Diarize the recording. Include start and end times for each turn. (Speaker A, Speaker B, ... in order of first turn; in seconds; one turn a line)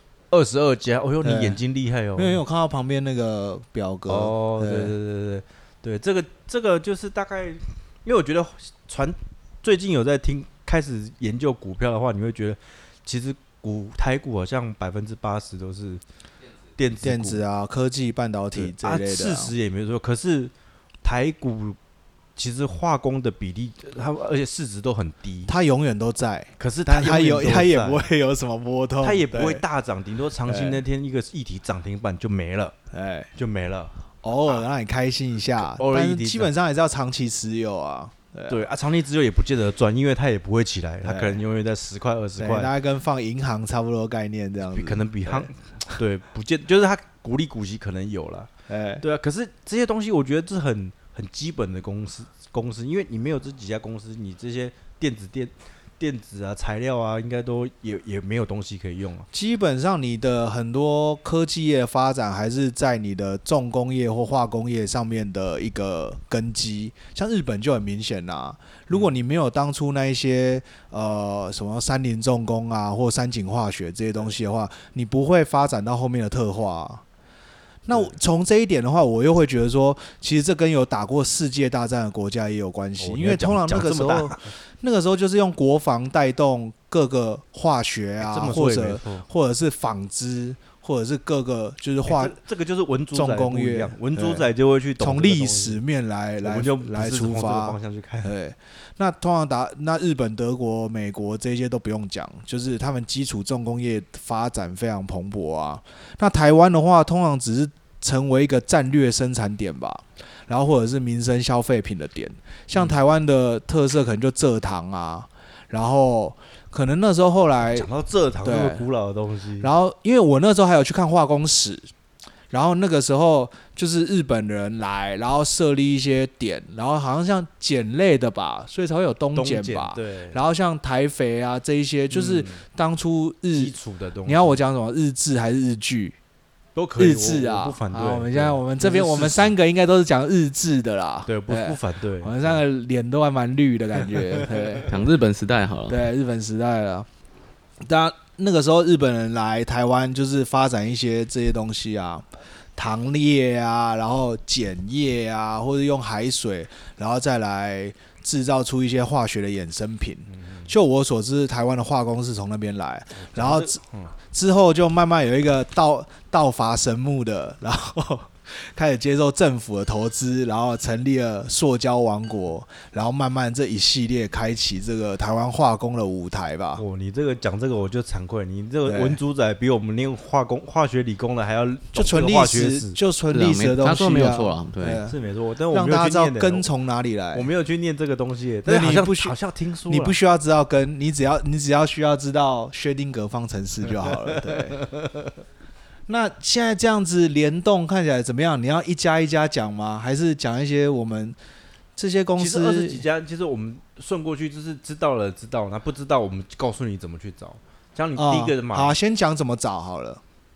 Speaker A: 0.3-2.4
Speaker B: 1.2-1.6
Speaker B: 2.1-4.9
Speaker A: 4.1-16.0
Speaker A: 16.8-17.4
Speaker B: 17.0-19.5
Speaker A: 18.5-21.8
Speaker A: 22.4-25.5
Speaker B: 25.5-29.6
Speaker A: 26.6-28.0
Speaker A: 29.0-32.8
Speaker B: 30.4-30.8
Speaker B: 32.9-33.3
Speaker A: 33.4-33.9
Speaker B: 34.2-38.6
Speaker A: 35.6-36.5
Speaker A: 38.5-42.7
Speaker B: 41.0-41.4
Speaker B: 42.4-45.5
Speaker A: 44.7-59.3
Speaker B: 48.7-49.0
Speaker B: 59.3-77.0
Speaker B: 77.8-92.4
Speaker A: 83.0-84.5
Speaker A: 88.2-89.2
Speaker A: 92.0-95.8
Speaker B: 93.1-117.9
Speaker A: 96.4-98.3
Speaker A: 117.6-119.7
Speaker B: 118.4-118.8
Speaker B: 119.6-121.9
Speaker B: 122.5-133.7
Speaker A: 129.3-130.4
Speaker A: 132.1-132.6
Speaker A: 133.5-134.6
Speaker B: 134.2-136.2
Speaker A: 136.7-139.5
Speaker B: 136.9-145.0
Speaker A: 141.3-142.6
Speaker A: 144.2-144.8
Speaker C: 144.8-146.0
Speaker B: 145.9-147.1
Speaker B: 147.8-176.8
Speaker A: 160.3-160.7
Speaker A: 163.1-164.1
Speaker A: 176.8-183.0
Speaker B: 178.8-179.2
Speaker B: 181.9-185.2
Speaker C: 183.3-185.0
Speaker A: 185.1-186.7
Speaker B: 185.7-187.5
Speaker A: 187.3-190.2
Speaker B: 188.7-189.3
Speaker B: 189.9-194.8
Speaker A: 194.0-195.3
Speaker B: 196.1-201.4
Speaker B: 201.9-203.0
Speaker A: 202.4-208.9
Speaker B: 208.2-210.2